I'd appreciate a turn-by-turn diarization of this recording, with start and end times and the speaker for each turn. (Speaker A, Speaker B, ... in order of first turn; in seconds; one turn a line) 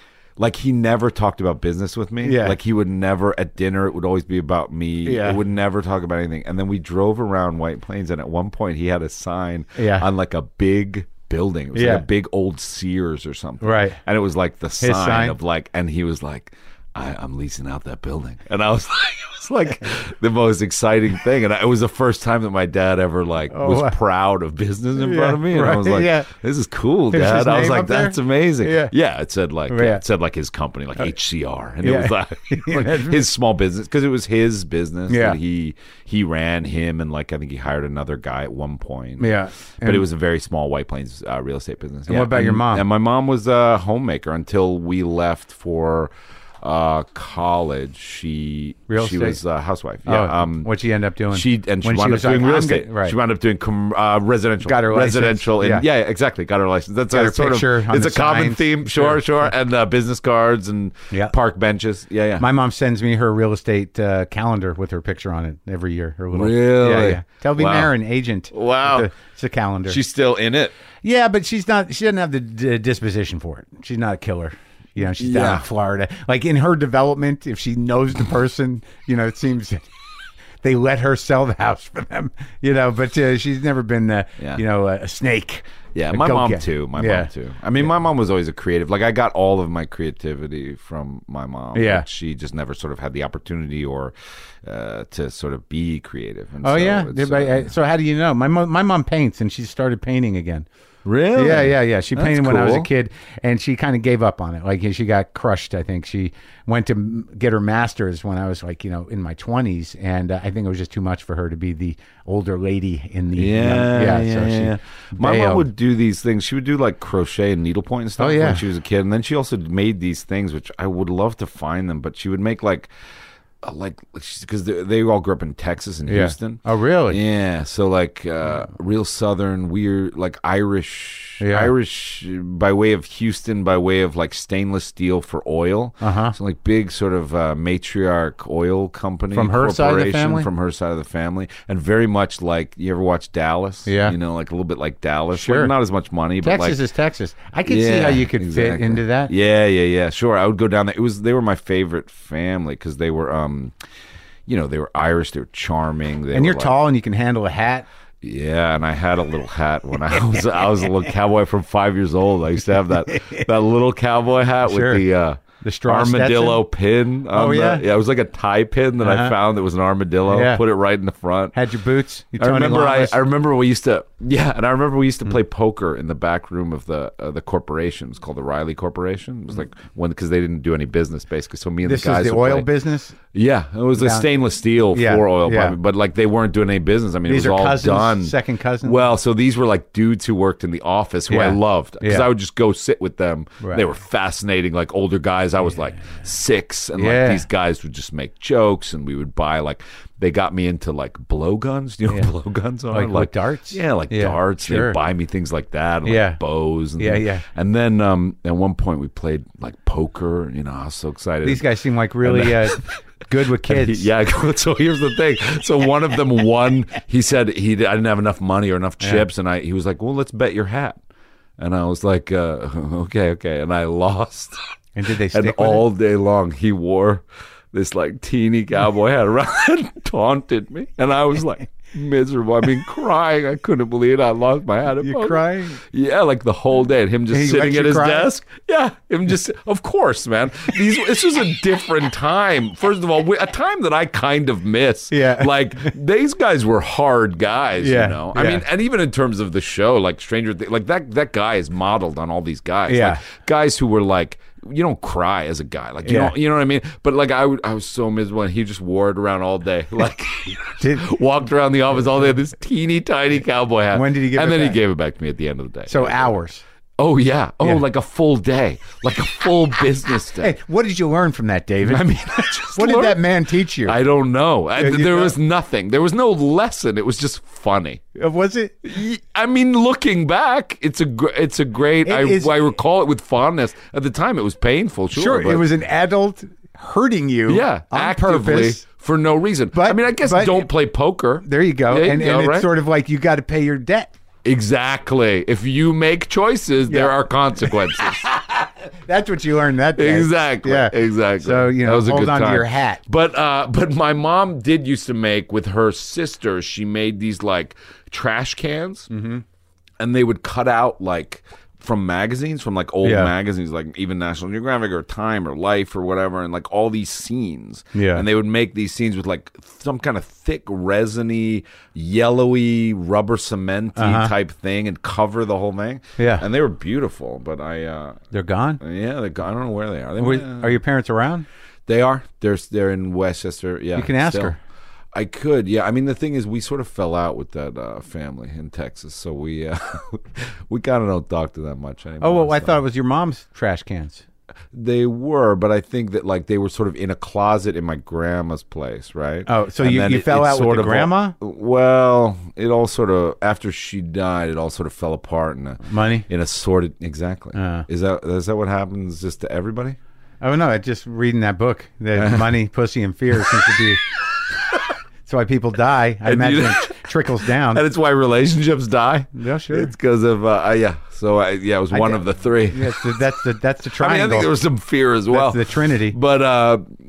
Speaker A: 0.4-46.1
Speaker B: 2.2-2.6
Speaker B: 5.0-5.4
Speaker B: 9.8-10.1
Speaker B: 11.8-12.1
Speaker B: 13.6-14.0
Speaker B: 14.8-15.4
Speaker B: 23.5-24.0
Speaker B: 25.0-26.3
Speaker B: 27.1-28.9
Speaker B: 29.7-30.0
Speaker B: 31.8-33.2
Speaker B: 35.1-35.4
Speaker B: 39.2-40.1
Speaker B: 42.1-42.9
Speaker A: 46.6-50.7
Speaker B: 48.9-49.4
Speaker B: 50.1-53.1
Speaker A: 51.3-62.5
Speaker B: 54.6-55.9
Speaker B: 57.1-59.2
Speaker B: 62.4-70.0
Speaker A: 66.3-67.9
Speaker A: 68.5-69.1
Speaker A: 69.9-70.7
Speaker B: 71.0-79.9
Speaker A: 75.2-75.7
Speaker B: 80.6-87.3
Speaker A: 86.0-97.7
Speaker B: 91.8-92.1
Speaker B: 96.6-100.7
Speaker A: 101.0-102.9
Speaker B: 101.3-115.7
Speaker A: 113.3-122.9
Speaker B: 118.2-118.6
Speaker A: 123.6-146.8
Speaker B: 126.1-127.2
Speaker B: 131.4-131.7
Speaker B: 136.0-136.3
Speaker B: 139.3-140.5
Speaker B: 143.9-144.2
Speaker B: 145.3-145.7
Speaker B: 146.4-149.3
Speaker A: 147.7-153.7
Speaker A: 154.5-156.8
Speaker B: 156.3-157.9
Speaker A: 158.2-171.6
Speaker B: 163.1-163.4
Speaker B: 164.7-165.0
Speaker B: 165.6-166.6
Speaker B: 167.3-167.8
Speaker B: 169.0-169.3
Speaker B: 170.3-170.6
Speaker B: 171.5-173.2
Speaker A: 172.4-182.7
Speaker B: 181.8-183.2
Speaker A: 183.3-211.7
Speaker B: 184.0-184.3
Speaker B: 184.9-185.8
Speaker B: 187.3-189.0
Speaker B: 191.3-192.3
Speaker B: 197.0-197.4
Speaker B: 202.9-205.0
Speaker B: 206.1-206.4
Speaker B: 207.0-207.4
Speaker B: 211.4-214.1
Speaker A: 212.2-212.9
Speaker A: 213.7-221.0
Speaker A: 221.6-224.6
Speaker B: 225.0-225.8
Speaker A: 225.3-266.3
Speaker B: 235.0-235.8
Speaker B: 237.3-238.3
Speaker B: 245.1-245.9
Speaker B: 247.8-248.6
Speaker B: 252.9-253.2
Speaker B: 256.0-256.3
Speaker B: 260.8-261.1
Speaker B: 263.9-264.8
Speaker B: 265.9-266.6
Speaker A: 267.0-270.5
Speaker B: 270.4-274.0
Speaker A: 271.8-273.2
Speaker A: 273.8-278.0
Speaker B: 274.8-275.4
Speaker B: 278.1-278.9
Speaker A: 278.9-285.6
Speaker B: 282.1-282.5
Speaker B: 285.1-288.8
Speaker A: 287.5-292.7
Speaker B: 289.7-290.7
Speaker B: 291.4-294.1
Speaker A: 294.4-298.2
Speaker B: 296.9-303.0
Speaker A: 300.0-309.1
Speaker B: 309.1-309.4
Speaker A: 310.0-328.2
Speaker B: 313.0-313.3
Speaker B: 317.9-318.2
Speaker B: 324.0-324.3
Speaker B: 326.2-326.4
Speaker B: 328.3-328.8
Speaker A: 328.8-330.8
Speaker B: 330.2-331.5
Speaker A: 331.9-334.5
Speaker B: 334.0-334.6
Speaker A: 335.1-342.8
Speaker B: 342.2-344.2
Speaker A: 344.7-360.0
Speaker B: 349.5-351.4
Speaker B: 355.9-356.3
Speaker B: 357.5-357.9
Speaker B: 360.4-364.0
Speaker A: 362.2-362.5
Speaker A: 363.4-363.9
Speaker A: 364.6-364.9
Speaker B: 365.3-367.8
Speaker A: 366.2-373.2
Speaker B: 369.4-369.9
Speaker B: 371.9-374.5
Speaker A: 374.0-376.9
Speaker B: 375.3-376.2